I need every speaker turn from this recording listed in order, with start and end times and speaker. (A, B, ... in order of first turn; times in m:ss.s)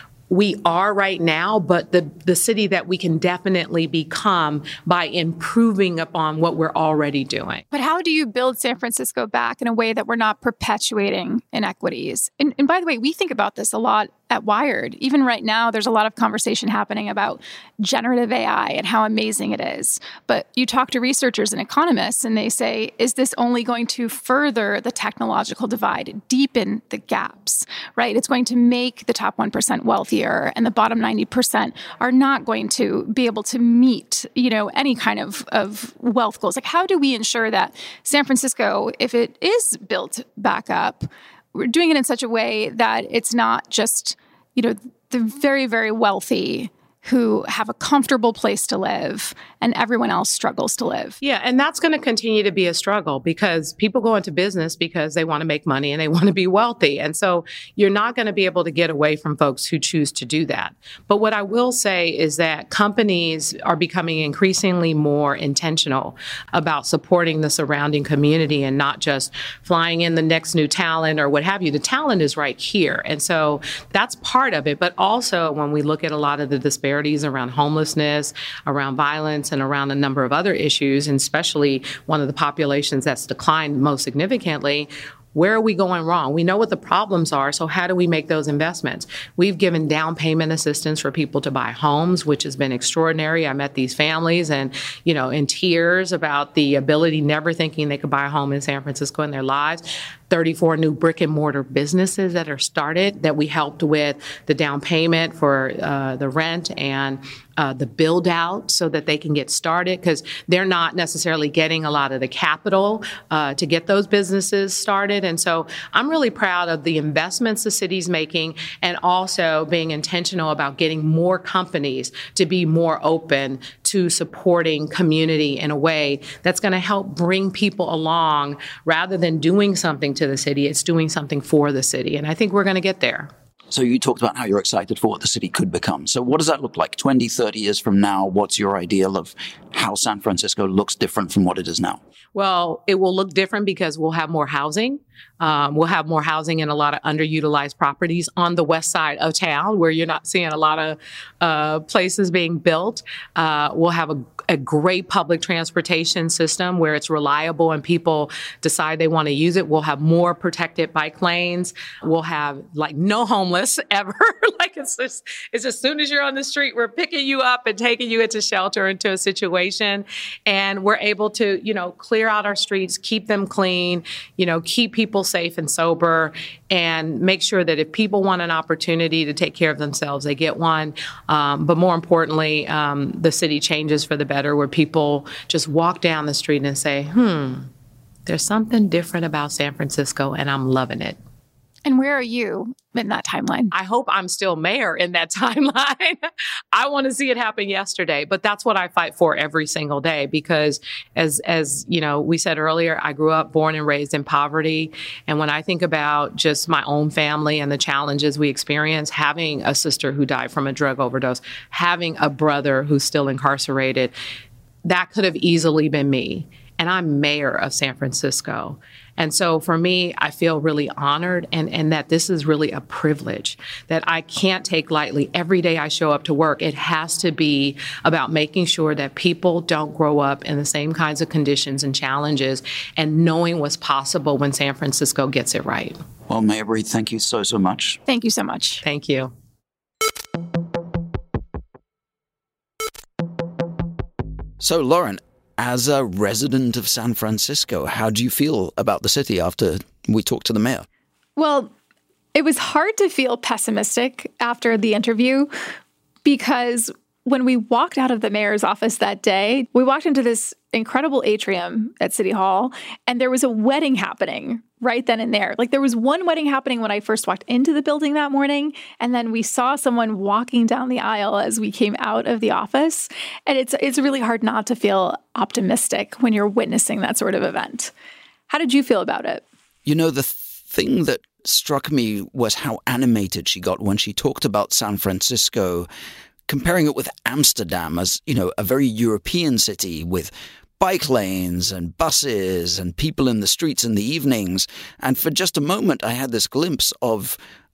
0:00.3-0:07.6 A
0:07.7-0:51.2 B
0:51.2-2:13.3 A
2:13.7-2:22.0 C
2:22.3-3:07.7 A
3:08.2-3:11.2 A
3:11.8-3:13.7 B
3:13.7-3:16.2 A
3:16.7-3:34.1 A
3:34.8-3:56.0 A
3:56.3-3:58.0 C
3:58.1-3:58.8 B
3:58.8-3:59.3 A
4:04.6-4:10.8 C
4:11.4-4:11.7 B
4:12.3-4:15.5 B
4:16.2-4:37.9 B
4:38.5-4:39.4 B
4:39.8-4:45.9 C
4:46.5-4:57.4 C